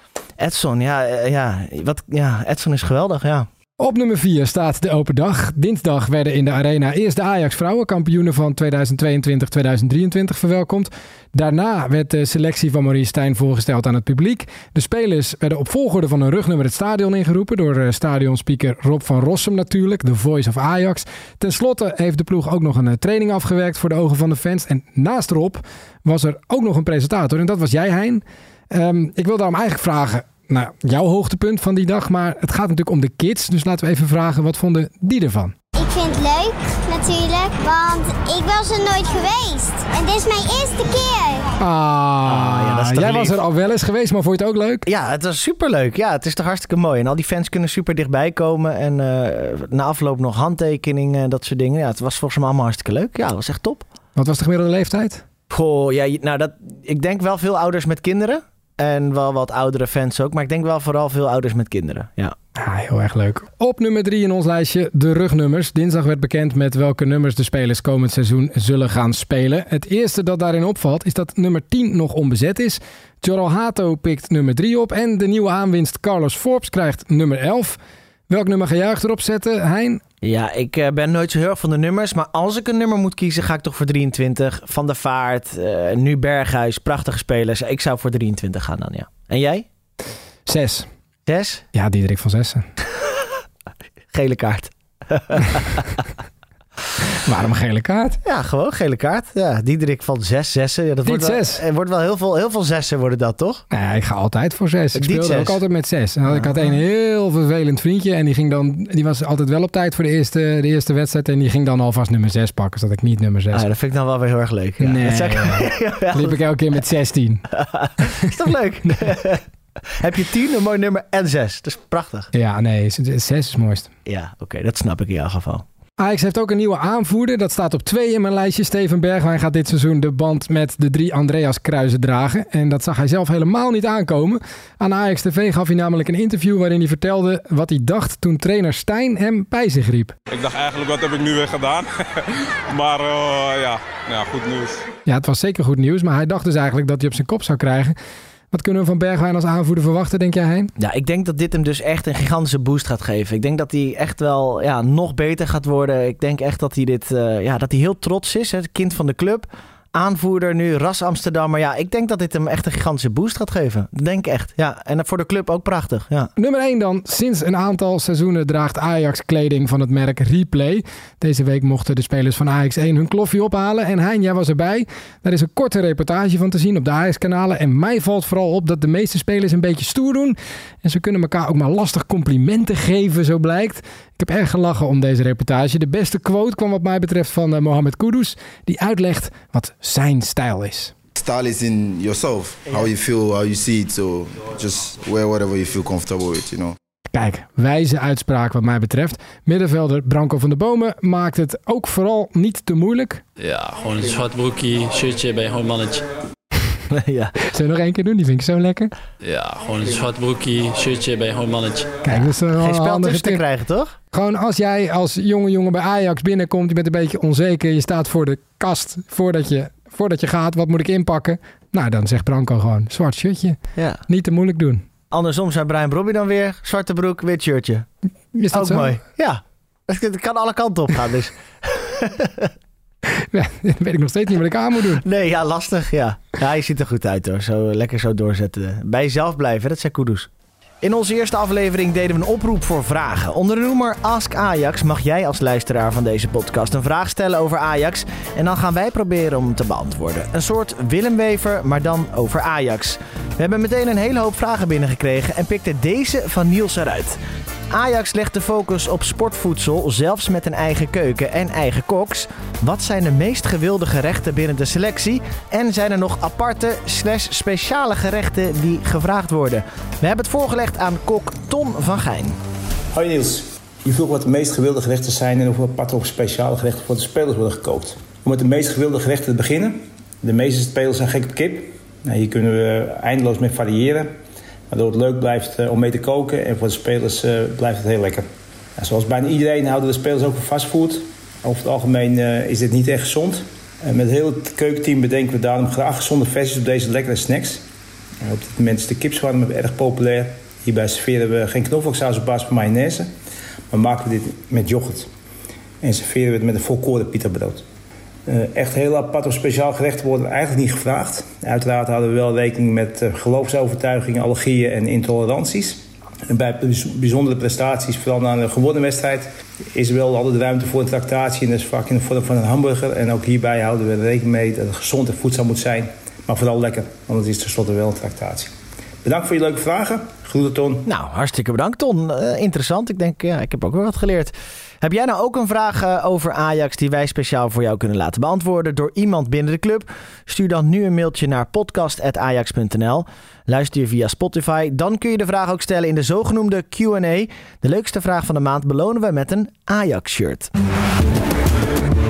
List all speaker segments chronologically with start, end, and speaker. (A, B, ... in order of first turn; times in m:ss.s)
0:00.4-0:03.5 A
0:03.8-0:35.6 B
0:35.7-0:41.4 C
0:41.6-0:44.8 B
0:42.2-0:43.4 A
0:44.8-0:53.9 A
0:54.2-0:55.2 B
0:55.5-1:02.3 A
1:02.6-1:20.0 B
1:20.2-1:29.6 A
1:30.5-1:30.9 B
1:31.2-1:31.6 A
1:31.7-1:32.6 B
1:34.1-1:36.0 A
1:37.2-1:38.2 B
1:38.2-1:43.6 A
1:41.0-1:41.6 B
1:43.7-1:53.7 B
1:44.9-1:45.6 A
1:46.3-1:46.6 A
1:53.5-1:56.4 A
1:54.8-1:57.4 B
1:57.6-1:59.4 A
2:00.0-2:02.3 A
2:02.3-2:03.9 B
2:04.0-2:05.6 A
2:06.0-2:20.1 B
2:20.3-2:24.8 D
2:25.0-2:28.0 B
2:28.5-2:30.7 B
2:30.8-2:46.3 A
2:46.4-3:10.9 B
3:11.2-3:16.8 E
3:17.1-3:23.2 B
3:23.4-3:26.0 F
3:26.9-3:27.4 A
3:27.4-3:28.9 B
3:29.2-3:31.9 F
3:32.0-3:33.4 B
3:32.1-3:33.9 A
3:34.1-3:44.8 B
3:43.8-3:44.0 A
3:45.1-3:47.8 A
3:48.3-3:49.0 B
3:48.5-3:52.5 A
3:53.3-3:55.0 B
3:55.0-4:00.3 A
4:00.8-4:17.2 A
4:17.7-4:32.3 A
4:32.9-4:44.1 G
4:44.7-4:48.2 G
4:48.8-4:57.6 G
4:58.2-5:03.1 G
5:03.7-5:05.1 G
5:05.8-5:07.6 G
5:08.3-5:28.5 G
5:29.0-5:30.8 G
5:30.8-5:50.5 A